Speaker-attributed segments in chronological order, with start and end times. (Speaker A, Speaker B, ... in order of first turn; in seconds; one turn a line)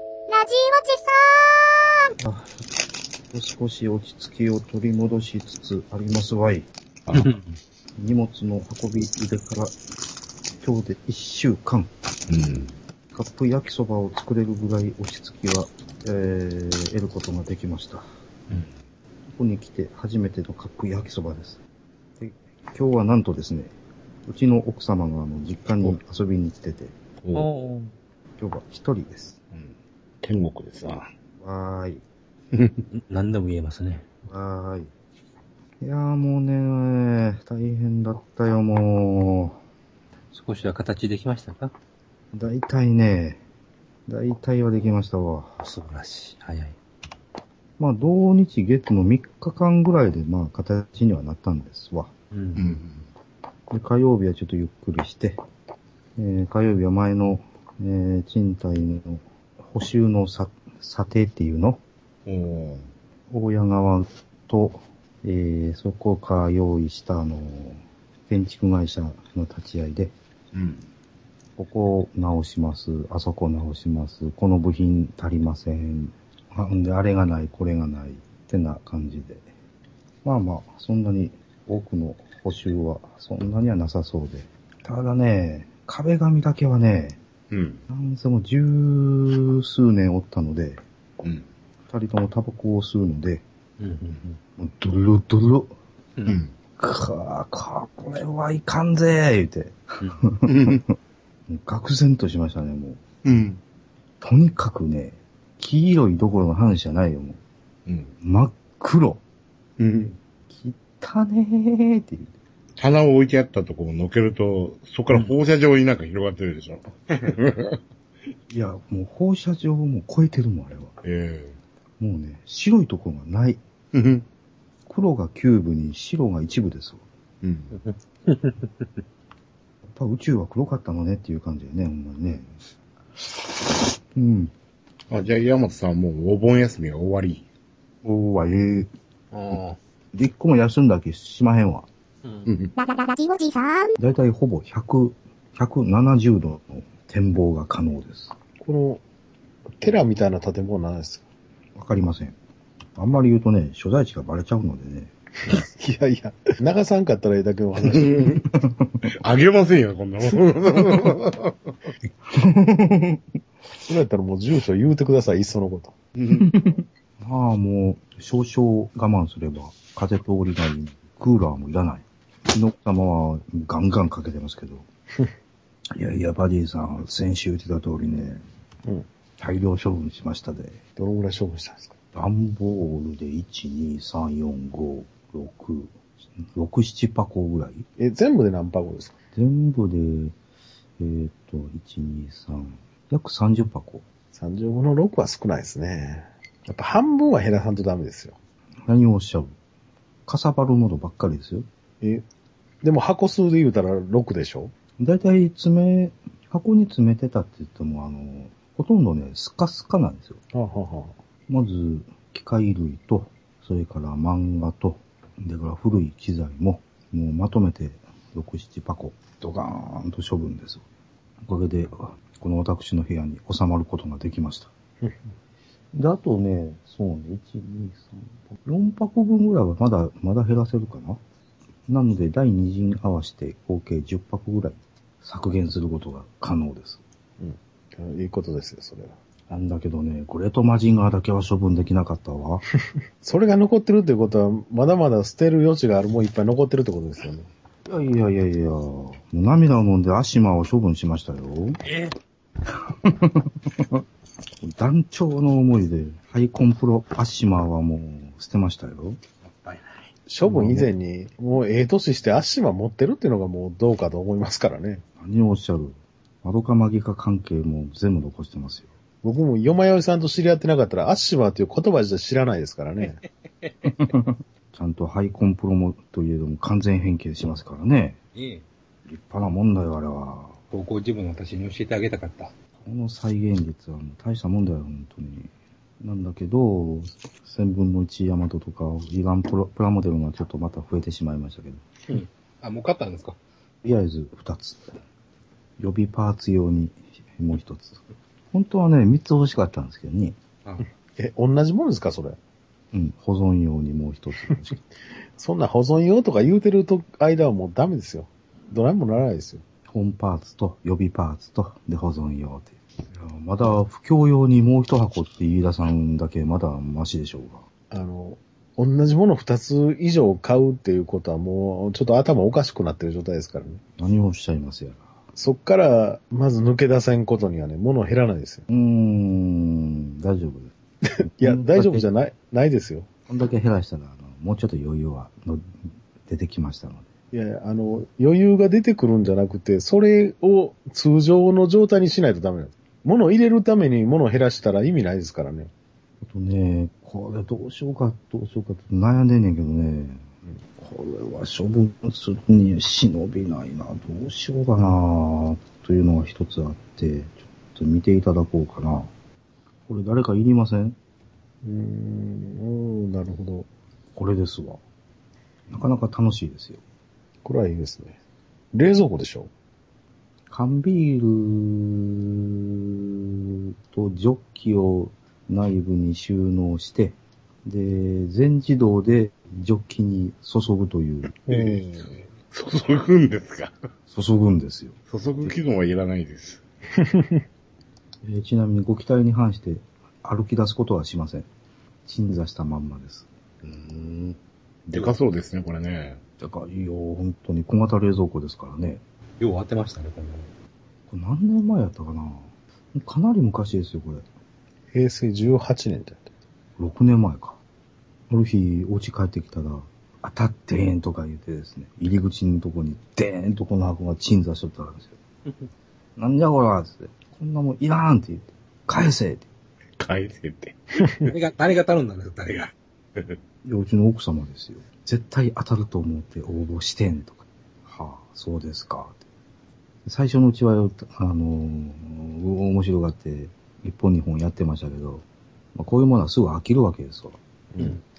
Speaker A: 0.3-1.8
Speaker B: 2.2-2.8
Speaker B: 3.3-6.7
Speaker C: 7.1-7.5
Speaker B: 8.0-9.8
Speaker B: 10.6-11.9
Speaker D: 12.3-12.7
Speaker B: 13.1-18.1
Speaker B: 19.3-21.6
Speaker B: 22.2-23.7
Speaker B: 24.3-26.9
Speaker C: 27.3-27.9
Speaker B: 28.4-29.4
Speaker D: 30.2-31.1
Speaker B: 31.4-32.0
Speaker D: 32.5-32.8
Speaker C: 32.9-34.1
Speaker B: 34.3-34.9
Speaker B: 35.8-39.6
Speaker C: 40.3-41.7
Speaker B: 42.3-43.4
Speaker B: 44.1-45.6
Speaker C: 45.6-46.8
Speaker B: 47.8-52.1
Speaker C: 52.3-52.8
Speaker D: 52.6-53.0
Speaker B: 53.7-55.4
Speaker B: 56.2-61.8
Speaker D: 62.3-62.9
Speaker B: 63.3-70.1
Speaker D: 70.5-70.9
Speaker B: 71.6-79.5
Speaker B: 80.2-87.2
Speaker D: 87.5-87.8
Speaker B: 87.9-90.8
Speaker D: 91.2-91.5
Speaker B: 91.9-93.4
Speaker C: 93.8-94.4
Speaker B: 94.6-95.7
Speaker D: 96.3-96.5
Speaker B: 96.8-100.8
Speaker D: 100.5-100.8
Speaker B: 101.5-103.0
Speaker D: 103.2-103.6
Speaker B: 104.2-107.4
Speaker B: 108.2-109.2
Speaker D: 109.8-110.1
Speaker B: 110.5-112.3
Speaker D: 112.8-117.8
Speaker B: 118.5-121.0
Speaker D: 121.0-121.6
Speaker B: 122.0-123.6
Speaker D: 123.9-124.2
Speaker B: 124.9-127.0
Speaker D: 127.4-127.8
Speaker C: 127.7-128.8
Speaker B: 129.9-132.5
Speaker B: 134.1-134.5
Speaker D: 135.1-137.4
Speaker B: 138.0-138.9
Speaker C: 139.3-139.8
Speaker B: 140.1-141.9
Speaker C: 142.2-142.5
Speaker D: 142.5-142.7
Speaker A: 142.8-143.9
Speaker B: 144.0-148.3
Speaker E: 148.6-149.0
Speaker E: 149.8-151.2
Speaker B: 151.8-152.4
Speaker B: 153.0-155.1
Speaker E: 155.5-158.4
Speaker D: 157.9-158.4
Speaker B: 158.5-159.0
Speaker D: 159.1-161.7
Speaker B: 162.3-163.2
Speaker E: 163.9-165.9
Speaker D: 166.2-166.5
Speaker B: 166.3-174.9
Speaker B: 175.9-178.4
Speaker B: 179.4-180.8
Speaker E: 181.0-181.9
Speaker B: 182.1-187.9
Speaker E: 188.0-189.1
Speaker B: 189.3-190.4
Speaker B: 191.0-194.1
Speaker E: 194.3-198.4
Speaker B: 198.9-199.6
Speaker B: 200.3-201.7
Speaker E: 202.8-204.7
Speaker B: 205.0-210.4
Speaker E: 210.5-211.2
Speaker B: 211.5-220.8
Speaker B: 221.4-224.7
Speaker B: 225.9-231.2
Speaker B: 231.9-237.0
Speaker E: 237.4-239.2
Speaker B: 239.5-242.7
Speaker E: 243.2-247.5
Speaker B: 247.9-251.8
Speaker B: 252.9-254.0
Speaker B: 254.6-259.2
Speaker C: 259.4-260.0
Speaker E: 260.3-265.0
Speaker B: 260.4-260.9
Speaker B: 265.2-268.9
Speaker E: 269.2-273.2
Speaker B: 273.9-278.2
Speaker C: 278.4-278.6
Speaker B: 279.1-280.6
Speaker C: 280.7-282.5
Speaker B: 282.8-291.8
Speaker C: 292.1-293.4
Speaker B: 293.8-294.9
Speaker B: 295.8-300.4
Speaker E: 301.2-302.4
Speaker B: 302.9-304.8
Speaker E: 305.4-309.6
Speaker B: 309.9-317.6
Speaker E: 317.9-323.8
Speaker B: 324.0-325.1
Speaker E: 325.4-328.6
Speaker B: 328.7-330.7
Speaker E: 331.1-333.1
Speaker B: 331.2-332.1
Speaker B: 333.3-337.1
Speaker E: 337.3-345.7
Speaker B: 346.2-350.3
Speaker B: 350.8-359.1
Speaker B: 359.9-361.0
Speaker E: 361.6-363.7
Speaker B: 364.1-364.8
Speaker B: 365.7-366.8
Speaker E: 367.4-368.2
Speaker E: 368.7-369.5
Speaker B: 370.5-381.3
Speaker D: 381.5-383.7
Speaker E: 381.5-381.9
Speaker B: 384.1-385.0
Speaker D: 385.1-386.6
Speaker E: 387.0-387.4
Speaker B: 388.2-391.5
Speaker B: 392.1-393.3
Speaker D: 393.6-396.2
Speaker B: 396.4-399.0
Speaker C: 399.4-400.5
Speaker B: 401.1-404.3
Speaker E: 404.9-406.2
Speaker B: 406.8-407.6
Speaker B: 408.3-415.2
Speaker B: 416.2-419.5
Speaker D: 420.0-421.3
Speaker C: 421.2-422.7
Speaker B: 423.6-429.2
Speaker B: 430.1-437.9